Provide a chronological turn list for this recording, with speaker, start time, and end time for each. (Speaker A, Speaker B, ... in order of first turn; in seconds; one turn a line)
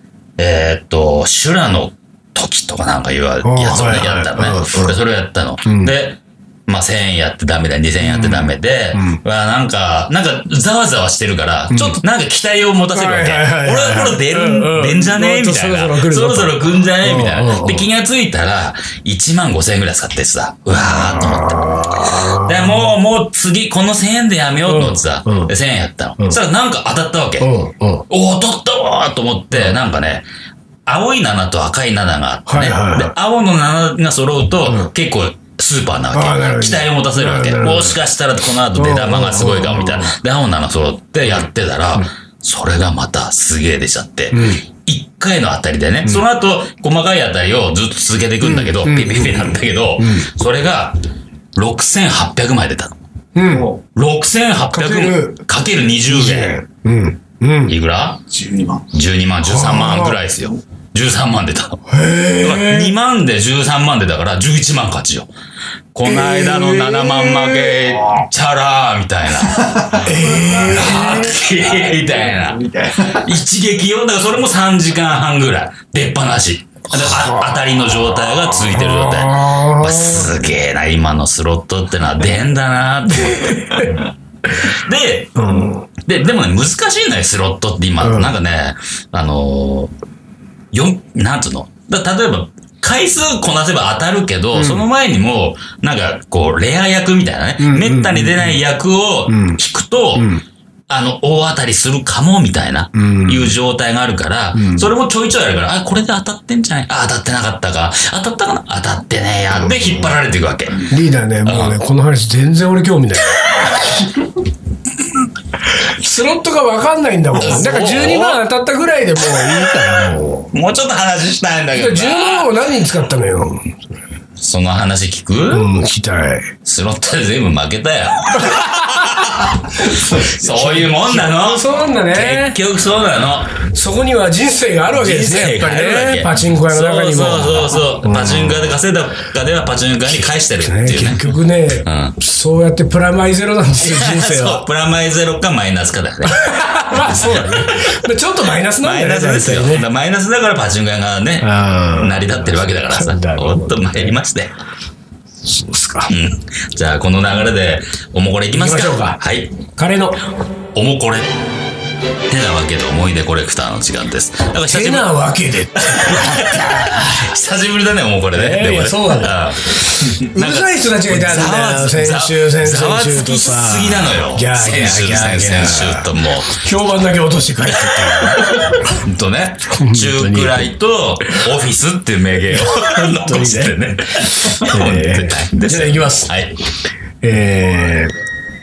Speaker A: 0.4-27.5
Speaker B: 3.4-5.0
Speaker B: 5.6-5.9
Speaker B: 8.0-9.2
Speaker B: 11.7-12.0
Speaker B: 12.9-17.9
Speaker B: 20.7-22.9
Speaker B: 24.7-25.5
Speaker B: 27.4-28.1
Speaker A: 28.1-30.3
Speaker A: 30.9-51.0
Speaker B: 32.5-33.1
Speaker B: 34.6-34.9
Speaker B: 36.1-38.0
Speaker B: 38.7-40.1
Speaker B: 44.3-44.6
Speaker B: 48.4-50.3
Speaker A: 51.6-52.9
Speaker B: 53.4-53.7
Speaker A: 53.8-56.6
Speaker B: 54.6-55.4
Speaker B: 56.1-57.7
Speaker A: 57.7-58.2
Speaker C: 58.3-58.9
Speaker A: 58.9-61.8
Speaker B: 59.4-60.2
Speaker B: 61.9-62.9
Speaker A: 62.4-65.3
Speaker A: 65.9-84.1
Speaker B: 66.0-67.9
Speaker C: 69.7-73.3
Speaker B: 70.0-71.3
Speaker B: 77.0-77.5
Speaker B: 78.6-80.3
Speaker B: 83.1-84.0
Speaker A: 84.6-85.5
Speaker B: 85.4-85.9
Speaker A: 86.0-89.9
Speaker B: 88.0-88.3
Speaker A: 90.7-100.3
Speaker B: 94.5-94.8
Speaker B: 97.6-98.6
Speaker B: 99.3-99.6
Speaker B: 100.1-100.4
Speaker A: 100.9-110.9
Speaker B: 102.9-103.5
Speaker B: 104.6-104.9
Speaker B: 110.9-114.3
Speaker A: 111.4-111.8
Speaker B: 115.8-120.5
Speaker A: 117.3-118.4
Speaker A: 119.3-119.7
Speaker A: 120.5-122.5
Speaker B: 121.7-123.7
Speaker A: 124.4-125.7
Speaker B: 125.5-126.5
Speaker A: 126.6-133.5
Speaker B: 128.4-132.6
Speaker B: 133.6-138.7
Speaker A: 134.9-141.3
Speaker B: 140.6-144.6
Speaker A: 141.8-142.1
Speaker A: 143.8-148.0
Speaker B: 146.2-149.9
Speaker A: 148.8-154.6
Speaker B: 151.4-154.2
Speaker B: 155.4-156.1
Speaker A: 156.1-159.6
Speaker B: 158.5-159.2
Speaker B: 159.7-160.3
Speaker A: 160.7-161.3
Speaker A: 162.3-165.1
Speaker B: 164.7-167.0
Speaker A: 165.8-176.6
Speaker B: 168.3-178.9
Speaker A: 177.8-186.6
Speaker B: 179.7-180.7
Speaker B: 182.5-186.3
Speaker B: 187.2-188.1